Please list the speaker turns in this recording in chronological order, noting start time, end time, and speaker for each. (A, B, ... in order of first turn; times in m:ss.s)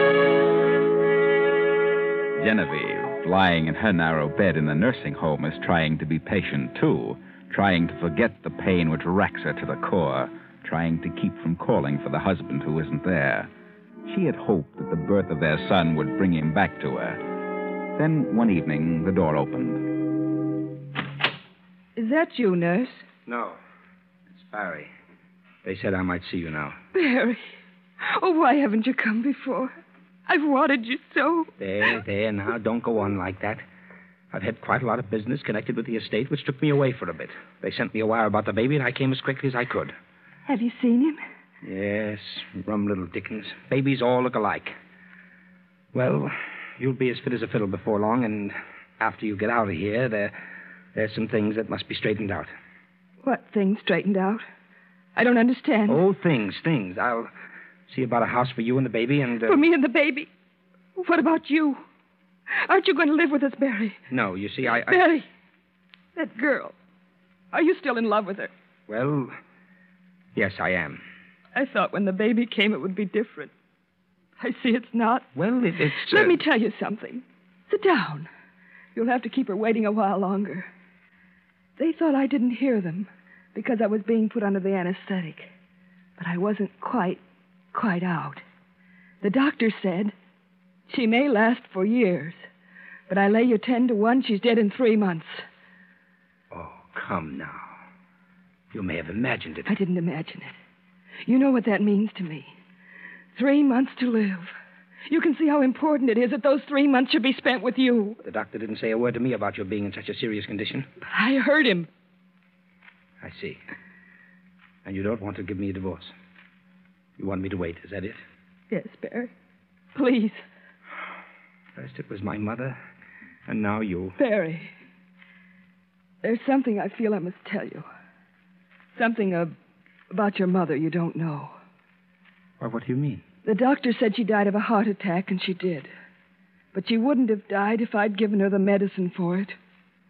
0:02.4-0:13.5 A
0:14.1-0:17.2 A
0:18.0-0:19.8 A
0:22.0-0:23.1 B
0:23.2-0:23.6 C
0:24.4-0:24.9 C
0:25.6-0:26.8 C
0:26.9-0:27.4 B
0:28.0-0:29.7 B
0:30.3-0:31.5 B
0:31.6-0:33.6 C
0:34.3-0:40.0 C
0:40.5-0:41.2 B
0:41.6-0:44.8 C
0:45.9-0:50.3 C
0:51.0-0:52.5 C
0:53.2-0:54.4 B
0:55.2-0:56.0 B
0:55.9-0:57.3 C
0:57.9-0:59.6 C
0:59.4-1:00.3 B
1:01.0-1:01.8 B
1:02.6-1:04.0 B
1:04.1-1:05.0 C
1:04.7-1:05.3 B
1:06.2-1:06.7 B
1:07.5-1:08.5 B
1:08.9-1:09.4 C
1:10.4-1:11.0 C
1:11.6-1:13.5 B
1:14.4-1:15.3 B
1:15.4-1:16.4 C
1:16.0-1:18.3 B
1:19.0-1:20.7 B
1:21.8-1:25.5 B
1:26.2-1:27.2 B
1:27.7-1:28.4 B
1:29.2-1:30.1 B
1:30.9-1:32.4 B
1:33.1-1:35.4 B
1:36.5-1:37.7 C
1:38.7-1:39.7 C
1:39.6-1:40.5 B
1:41.3-1:42.5 B
1:43.4-1:44.5 B
1:45.1-1:48.2 B
1:48.2-1:50.9 C
1:51.0-1:51.9 B
1:53.2-1:53.6 C
1:54.8-1:56.1 C
1:57.2-1:58.2 C
1:58.7-1:59.3 B
2:00.0-2:00.4 B
2:01.8-2:02.8 C
2:03.5-2:04.2 C
2:04.2-2:04.7 B
2:06.2-2:07.9 B
2:09.0-2:09.5 B
2:10.1-2:11.6 B
2:12.6-2:13.2 C
2:13.4-2:15.9 B
2:16.7-2:19.6 B